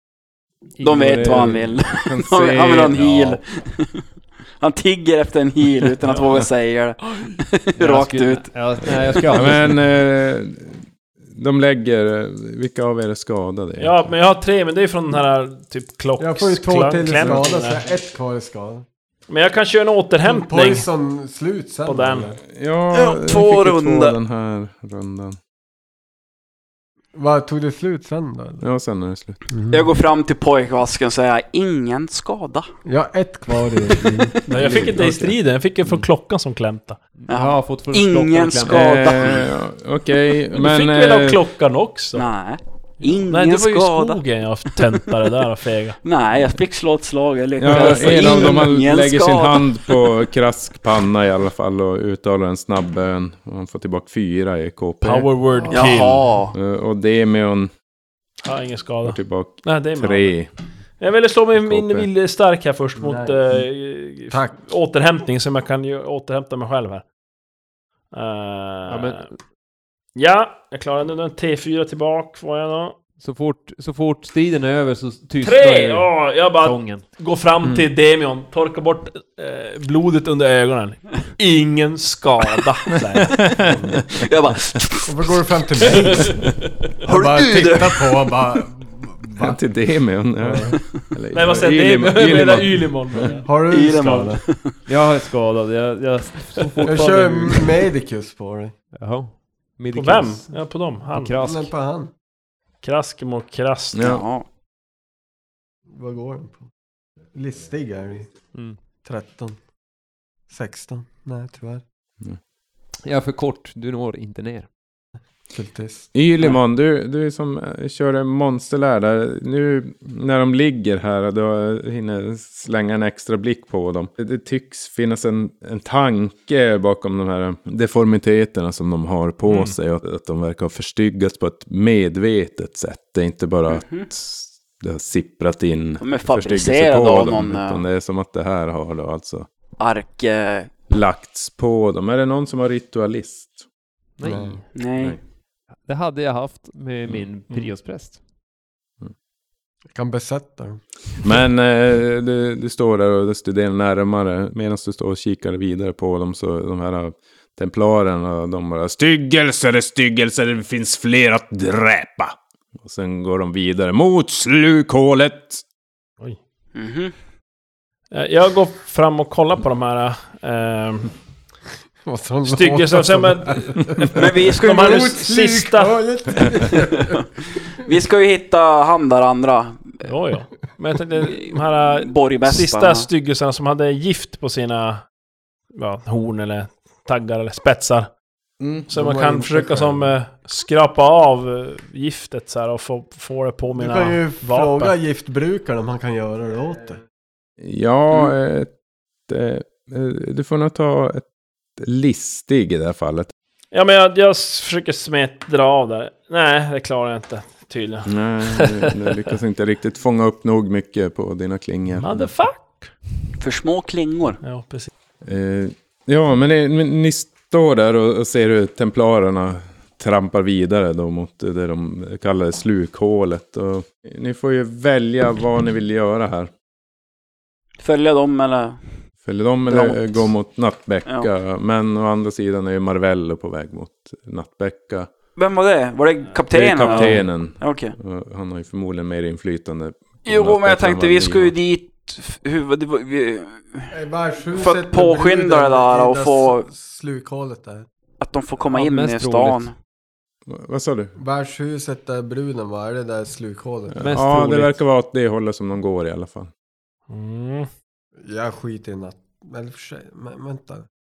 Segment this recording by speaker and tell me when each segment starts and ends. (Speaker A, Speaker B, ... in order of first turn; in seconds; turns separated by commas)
Speaker A: 0.8-1.7, Speaker B: 0.8-4.0, Speaker C: 1.2-3.4, Speaker B: 4.6-9.6, Speaker A: 7.8-9.8, Speaker C: 9.3-14.1, Speaker D: 13.8-17.8, Speaker E: 16.2-18.9, Speaker D: 19.3-20.9, Speaker E: 20.2-22.4, Speaker D: 21.9-22.3, Speaker C: 22.4-25.4, Speaker B: 22.9-24.2, Speaker E: 27.1-28.6, Speaker C: 28.6-29.4, Speaker E: 29.5-29.9, Speaker B: 29.7-32.7, Speaker E: 32.9-34.4, Speaker B: 33.6-34.9, Speaker D: 34.5-37.0, Speaker C: 34.6-35.4, Speaker A: 37.2-39.1, Speaker B: 37.3-39.5, Speaker C: 38.7-41.4, Speaker D: 40.5-42.3, Speaker B: 42.1-44.2, Speaker D: 43.3-46.0, Speaker B: 46.0-50.0, Speaker C: 47.6-55.3, Speaker D: 55.0-56.5, Speaker B: 55.7-56.5, Speaker C: 56.5-57.7, Speaker D: 58.4-60.4, Speaker C: 59.0-60.5, Speaker D: 61.0-67.0, Speaker C: 61.5-62.1, Speaker E: 63.0-63.6, Speaker E: 64.3-64.6, Speaker D: 68.1-69.3, Speaker A: 68.9-69.4, Speaker D: 70.1-73.0, Speaker A: 73.2-77.0, Speaker D: 75.4-83.5, Speaker C: 77.6-77.9, Speaker C: 83.2-84.0, Speaker E: 83.7-84.0, Speaker B: 84.1-86.0, Speaker E: 85.1-89.6, Speaker D: 86.0-86.6, Speaker B: 87.0-88.4, Speaker C: 89.4-93.3, Speaker E: 90.4-90.8, Speaker D: 91.3-94.3, Speaker E: 93.4-94.4, Speaker B: 93.7-94.7, Speaker A: 94.9-97.8, Speaker E: 96.8-98.8, Speaker A: 99.0-101.7, Speaker D: 99.9-101.4, Speaker E: 101.4-102.1, Speaker D: 102.8-104.1, Speaker C: 103.9-104.2, Speaker B: 104.0-104.5, Speaker E: 105.9-106.7, Speaker E: 107.3-108.5, Speaker E: 109.0-109.6, Speaker E: 110.5-111.8, Speaker A: 113.0-114.7, Speaker E: 115.5-116.1, Speaker C: 116.1-139.5, Speaker B: 133.7-134.1, Speaker B: 136.0-137.8, Speaker B: 139.8-140.7, Speaker C: 140.9-143.7, Speaker A: 144.2-144.7, Speaker E: 144.2-144.6, Speaker B: 144.8-145.2, Speaker A: 145.9-148.2, Speaker E: 149.9-150.8, Speaker C: 151.2-165.6, Speaker B: 166.8-167.1, Speaker D: 168.1-171.1, Speaker E: 172.1-177.2, Speaker D: 172.5-173.8, Speaker B: 174.1-175.0, Speaker D: 174.5-176.0, Speaker B: 177.8-180.1, Speaker D: 180.0-185.1, Speaker B: 181.2-183.1, Speaker D: 185.7-188.1, Speaker C: 188.6-188.9, Speaker D: 188.9-194.9, Speaker E: 188.9-190.1, Speaker E: 193.7-197.0, Speaker C: 197.6-198.7, Speaker C: 199.3-201.3, Speaker C: 201.8-203.3, Speaker D: 203.7-209.1, Speaker C: 208.1-212.3, Speaker D: 212.0-212.9, Speaker B: 213.4-214.4, Speaker D: 214.4-214.9, Speaker C: 215.2-226.5, Speaker B: 227.8-228.8, Speaker C: 229.2-235.1, Speaker B: 229.7-230.0, Speaker B: 235.4-237.9, Speaker C: 236.5-241.5, Speaker D: 236.9-237.1, Speaker B: 240.3-243.9, Speaker E: 243.9-247.9, Speaker B: 244.5-246.7, Speaker B: 248.2-249.7, Speaker A: 248.7-249.7, Speaker C: 250.5-251.2, Speaker E: 251.2-254.0, Speaker C: 253.9-256.5, Speaker A: 254.0-254.8, Speaker D: 257.1-257.7, Speaker E: 258.2-260.9